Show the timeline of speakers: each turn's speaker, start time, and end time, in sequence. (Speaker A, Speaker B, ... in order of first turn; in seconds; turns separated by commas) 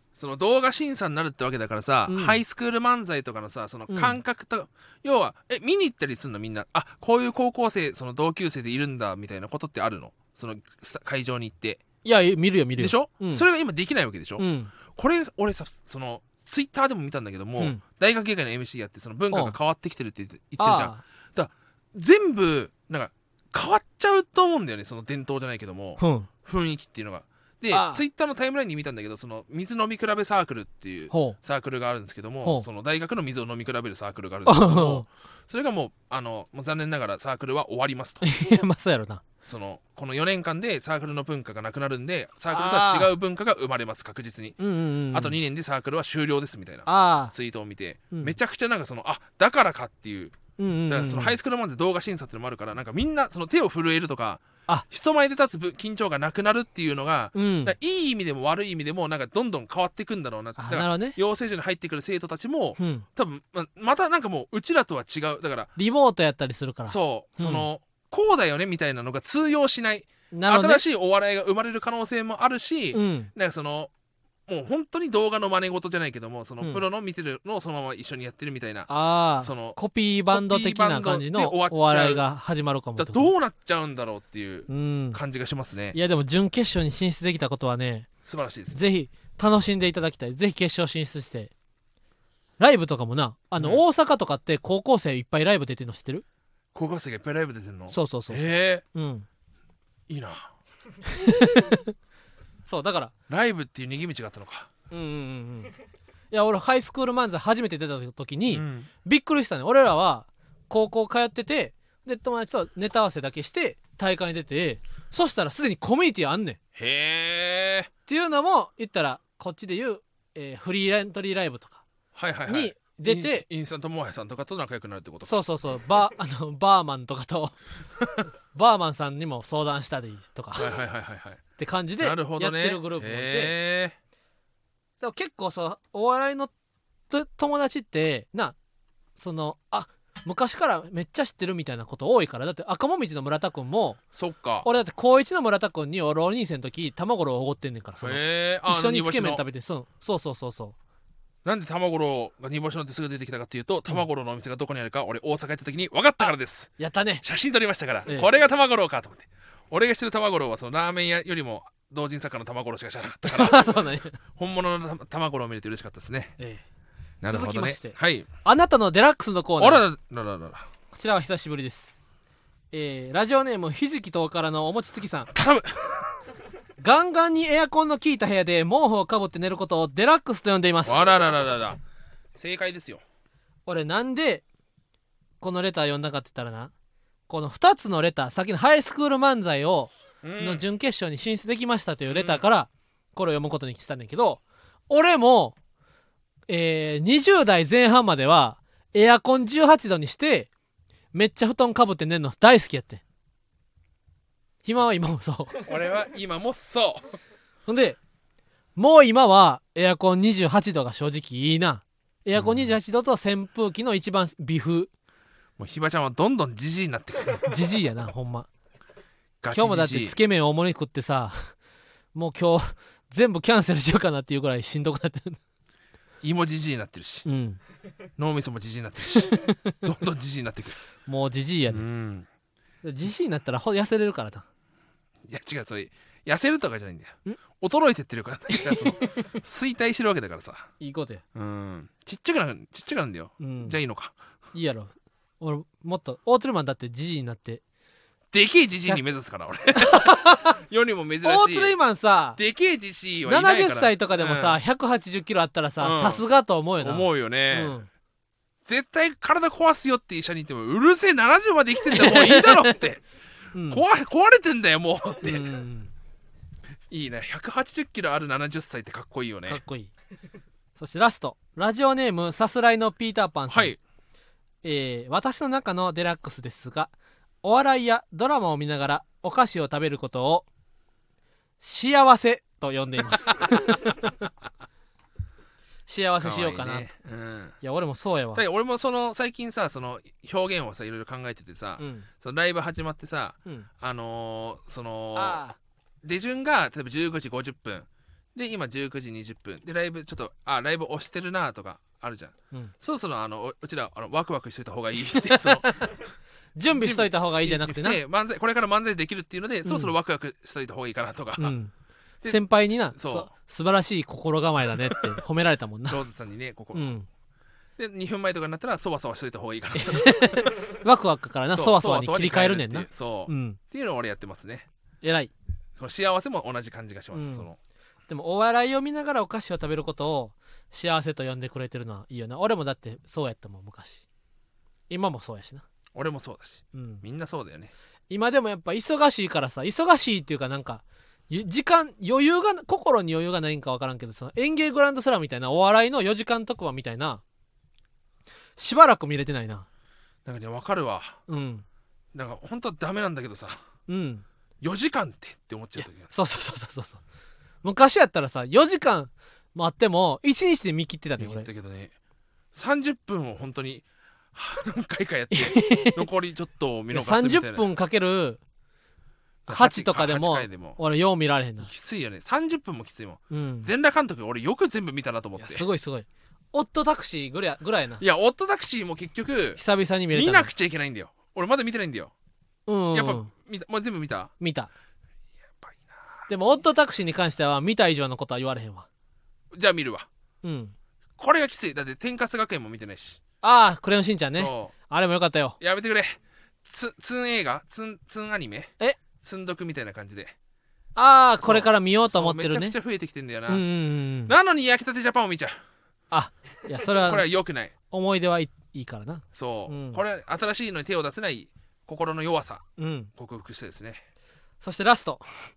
Speaker A: 0.1-11.8, Speaker B: 2.1-2.4, Speaker B: 3.9-4.2, Speaker B: 12.0-13.4, Speaker A: 12.8-38.2, Speaker B: 14.4-14.7, Speaker B: 20.6-21.0, Speaker B: 26.0-26.3, Speaker B: 27.7-28.0, Speaker B: 31.1-31.4, Speaker B: 34.5-35.1, Speaker B: 38.2-39.2, Speaker A: 39.4-44.6, Speaker B: 42.5-43.1, Speaker B: 44.6-45.4, Speaker A: 45.1-50.4, Speaker B: 46.9-47.3, Speaker B: 48.1-48.4, Speaker B: 50.6-51.4, Speaker A: 50.9-65.7, Speaker B: 57.4-57.8, Speaker B: 60.6-61.2, Speaker B: 62.8-63.1, Speaker B: 65.8-67.7, Speaker A: 66.9-73.9, Speaker B: 70.3-70.8, Speaker B: 72.9-73.3, Speaker A: 74.5-78.9, Speaker B: 78.9-83.3, Speaker A: 79.4-82.2, Speaker A: 83.0-86.0, Speaker B: 84.7-85.2, Speaker B: 85.9-88.1, Speaker A: 88.2-88.8, Speaker B: 88.7-91.5, Speaker B: 92.6-96.2, Speaker A: 93.6-93.8, Speaker A: 96.7-98.8, Speaker B: 97.9-98.4, Speaker B: 98.9-99.3, Speaker A: 100.1-100.5, Speaker B: 101.1-101.9, Speaker B: 102.7-103.1, Speaker A: 103.3-104.7, Speaker B: 104.9-105.7, Speaker B: 106.3-116.6, Speaker A: 108.5-108.9, Speaker A: 116.8-117.9, Speaker B: 118.1-121.8, Speaker A: 122.1-125.4, Speaker B: 122.5-123.4, Speaker B: 125.2-127.6, Speaker B: 128.5-130.7, Speaker A: 130.6-131.4, Speaker B: 131.6-133.5, Speaker A: 132.0-134.0, Speaker B: 135.0-136.5, Speaker B: 137.1-138.6, Speaker B: 139.2-144.0, Speaker A: 144.2-144.7, Speaker B: 144.6-150.8, Speaker A: 148.0-149.4, Speaker A: 151.4-163.7, Speaker B: 156.8-157.2, Speaker B: 163.3-164.2, Speaker A: 164.3-166.3, Speaker B: 166.4-166.6, Speaker A: 167.2-168.3, Speaker B: 167.3-169.8, Speaker A: 169.6-170.7, Speaker B: 170.9-172.0, Speaker B: 172.7-175.3, Speaker A: 175.3-176.2, Speaker B: 176.8-181.1, Speaker A: 180.9-181.8, Speaker A: 182.3-183.0, Speaker B: 183.7-184.4, Speaker B: 185.4-186.7, Speaker B: 187.3-195.6, Speaker A: 190.2-190.6, Speaker A: 192.1-192.4, Speaker B: 196.5-200.5, Speaker B: 201.1-203.0, Speaker B: 204.7-205.6, Speaker A: 205.6-207.1, Speaker B: 207.7-208.0, Speaker B: 208.8-214.9, Speaker A: 212.3-212.7, Speaker A: 215.6-217.6, Speaker B: 217.4-218.5, Speaker A: 219.4-220.2, Speaker B: 219.5-221.5, Speaker B: 222.1-225.4, Speaker A: 226.2-227.3, Speaker B: 227.3-227.6, Speaker A: 228.2-230.8, Speaker B: 229.2-229.8, Speaker B: 231.1-231.8, Speaker A: 231.7-232.3, Speaker B: 232.8-234.5, Speaker A: 235.3-240.7, Speaker B: 238.5-239.3, Speaker B: 240.8-241.2, Speaker A: 241.3-244.2, Speaker B: 243.4-243.8, Speaker B: 244.5-247.6, Speaker A: 248.3-251.8, Speaker B: 249.8-250.6, Speaker B: 251.2-252.4, Speaker A: 252.4-254.6, Speaker B: 253.2-257.9, Speaker A: 255.8-256.2, Speaker A: 256.8-257.8, Speaker A: 258.7-263.1, Speaker B: 261.9-262.8, Speaker B: 263.5-263.8, Speaker A: 263.7-265.5, Speaker B: 265.2-265.9, Speaker A: 266.9-269.6, Speaker B: 269.5-269.9, Speaker B: 270.8-273.8, Speaker A: 273.5-273.8, Speaker B: 274.6-280.5, Speaker B: 281.6-284.3, Speaker A: 283.3-283.8, Speaker B: 285.9-286.9, Speaker A: 286.2-287.6, Speaker B: 287.6-288.4, Speaker A: 288.4-295.4, Speaker B: 291.8-292.1, Speaker B: 295.2-295.6, Speaker A: 296.0-306.0, Speaker B: 305.0-306.0, Speaker B: 306.6-308.0, Speaker A: 306.7-311.6, Speaker B: 309.7-309.9, Speaker B: 311.4-311.7, Speaker B: 312.3-316.0, Speaker A: 312.9-313.3, Speaker A: 315.9-316.9, Speaker B: 316.8-317.1, Speaker A: 317.8-320.4, Speaker B: 319.8-323.6, Speaker A: 321.5-324.7, Speaker B: 325.0-325.3, Speaker A: 325.8-327.6, Speaker B: 327.1-327.5, Speaker B: 328.1-334.0, Speaker B: 334.9-335.6, Speaker A: 335.9-337.7, Speaker B: 336.7-337.0, Speaker B: 338.1-347.2, Speaker B: 348.6-349.7, Speaker A: 350.3-351.2, Speaker B: 351.3-351.6, Speaker A: 352.1-353.6, Speaker B: 353.9-354.2, Speaker A: 354.6-356.1, Speaker B: 355.8-357.0, Speaker B: 357.6-361.5, Speaker A: 361.2-361.9, Speaker A: 362.5-367.6, Speaker B: 365.3-366.1, Speaker B: 366.9-368.4, Speaker A: 369.5-370.8, Speaker B: 369.5-371.7, Speaker A: 371.6-375.7, Speaker B: 373.3-373.7, Speaker B: 375.4-378.0, Speaker A: 378.0-379.6, Speaker B: 379.6-380.5, Speaker A: 380.1-382.1, Speaker B: 382.7-383.3, Speaker A: 382.9-384.3, Speaker B: 384.4-384.7, Speaker A: 385.6-386.3, Speaker B: 386.3-388.9, Speaker A: 389.5-390.1, Speaker B: 390.4-390.7, Speaker A: 391.2-393.2, Speaker B: 393.4-395.6, Speaker A: 394.3-394.7, Speaker A: 395.6-400.4, Speaker B: 401.0-402.8, Speaker A: 401.4-403.6, Speaker B: 403.5-404.3, Speaker A: 404.3-405.6, Speaker B: 406.1-407.3, Speaker A: 407.0-407.7, Speaker B: 407.9-410.0, Speaker A: 409.3-412.6, Speaker B: 412.8-413.1, Speaker A: 413.2-414.0, Speaker B: 414.6-415.3